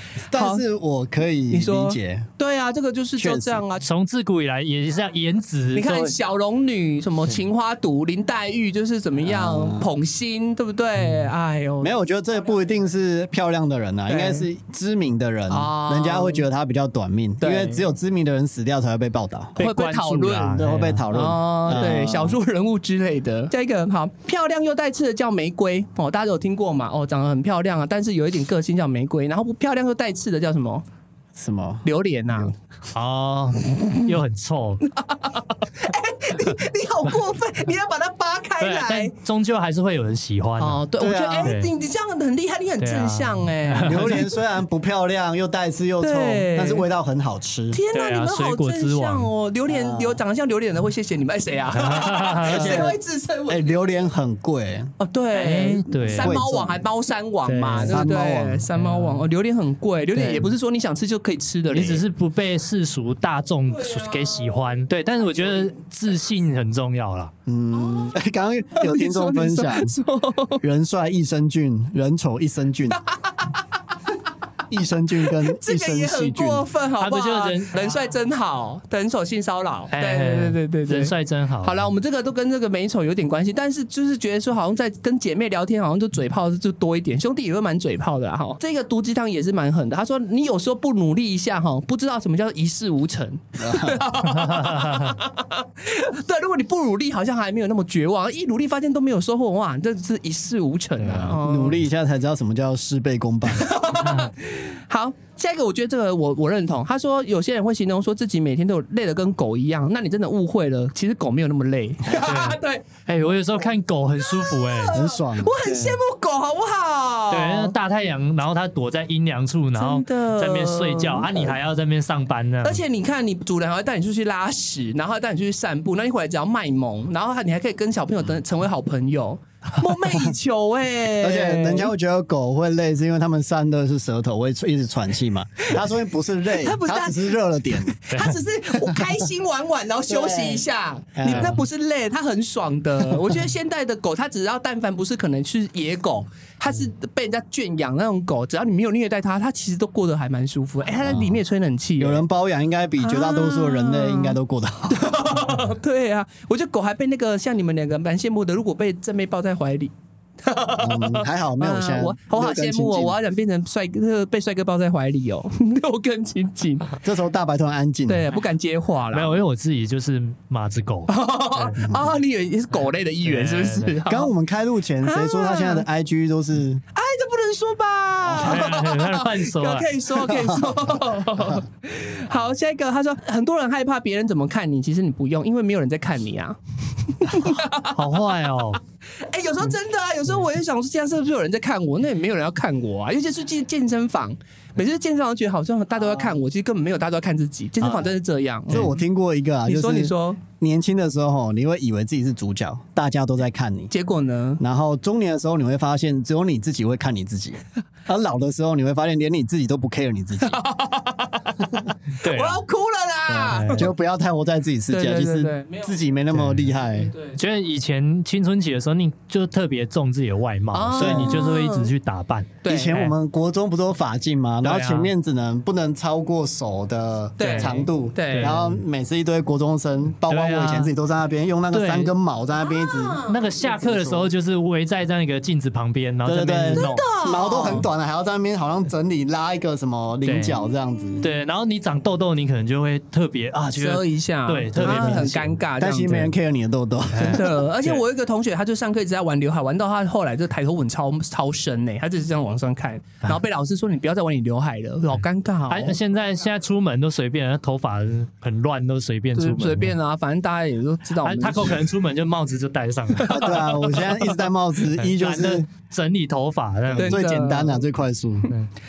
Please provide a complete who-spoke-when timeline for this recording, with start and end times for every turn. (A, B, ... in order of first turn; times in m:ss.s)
0:00.3-0:02.3 A
0:00.3-0:00.6 B
0:01.5-0:03.8 B
0:03.2-0:03.6 A
0:03.8-0:06.2 C
0:05.7-0:12.0 B
0:09.2-0:09.9 A
0:11.8-0:19.6 A
0:14.1-0:14.5 B
0:15.5-0:16.4 B
0:17.4-0:17.8 B
0:19.6-0:21.3 C
0:19.6-0:30.8 B
0:20.5-0:22.4 A
0:31.3-0:32.5 A
0:31.8-0:32.5 B
0:32.9-0:34.9 C
0:34.9-0:39.1 B
0:38.6-0:40.8 C
0:40.6-0:44.3 B
0:41.0-0:41.5 A
0:41.4-0:41.7 C
0:42.8-0:44.3 C
0:43.8-0:47.8 A
0:46.0-0:46.9 B
0:47.7-0:54.1 B
0:47.9-0:49.3 C
0:49.7-0:50.2 A
0:51.8-0:52.9 C
0:52.5-0:54.9 A
0:55.0-1:02.0 B
0:55.3-0:56.4 C
0:56.0-0:56.8 A
0:57.4-0:58.1 C
0:57.8-0:58.6 A
0:58.7-0:59.3 C
1:00.1-1:00.5 C
1:01.7-1:07.3 C
1:03.7-1:04.5 B
1:07.4-1:09.9 A
1:07.8-1:08.2 B
1:08.7-1:10.6 B
1:10.6-1:13.0 A
1:13.1-1:13.6 B
1:14.7-1:16.7 A
1:15.3-1:41.8 B
1:17.0-1:18.0 C
1:19.9-1:21.9 C
1:33.6-1:34.0 A
1:34.2-1:35.2 C
1:41.0-1:43.8 A
1:43.5-1:52.9 B
1:44.0-1:44.3 C
1:52.1-1:55.0 C
1:54.2-1:57.7 B
1:54.9-1:55.6 A
1:55.7-1:56.0 C
1:57.3-2:02.8 C
1:59.8-2:01.5 B
2:02.6-2:11.9 B
2:11.2-2:18.0 A
2:16.5-2:32.2 B
2:18.1-2:18.4 C
2:20.1-2:20.6 A
2:21.2-2:21.6 A
2:21.3-2:21.6 C
2:31.0-2:31.4 A
2:32.0-2:35.4 A
2:33.0-2:34.4 B
2:34.9-2:47.0 B
2:40.7-2:43.2 A
2:47.0-2:48.3 A
2:48.1-2:49.4 B
2:49.1-2:52.0 C
2:51.1-2:54.3 B
2:53.2-2:54.0 C
2:54.0-2:56.8 A
2:55.0-2:55.8 B
2:56.9-3:08.0 B
2:58.2-3:00.2 C
3:07.4-3:08.8 C
3:09.2-3:19.0 B
3:18.7-3:23.9 A
3:19.6-3:20.4 B
3:23.9-3:24.6 B
3:24.6-3:30.6 A
3:30.4-3:33.8 B
3:32.2-3:32.6 C
3:33.4-3:33.9 C
3:33.4-3:37.1 A
3:34.9-3:36.0 B
3:36.3-3:36.7 C
3:36.9-3:37.4 B
3:37.3-3:43.1 C
3:40.7-3:41.9 B
3:41.0-3:41.4 A
3:42.6-3:43.0 B
3:42.7-3:54.3 A
3:44.6-3:45.1 C
3:47.4-3:48.5 B
3:47.4-3:48.8 C
3:50.3-3:50.9 C
3:51.7-3:52.1 C
3:52.7-3:53.4 B
3:53.2-3:57.1 C
3:56.2-4:01.3 A
3:56.7-3:57.8 B
4:00.2-4:00.6 C
4:01.2-4:05.5 C
4:03.7-4:06.3 B
4:04.7-4:07.6 A
4:07.1-4:08.0 C
4:07.3-4:16.0 B
4:15.7-4:20.0 C
4:19.4-4:21.8 B
4:21.2-4:23.7 C
4:23.2-4:24.3 B
4:23.2-4:25.6 A
4:25.0-4:27.2 C
4:26.9-4:28.5 A
4:27.0-4:27.8 B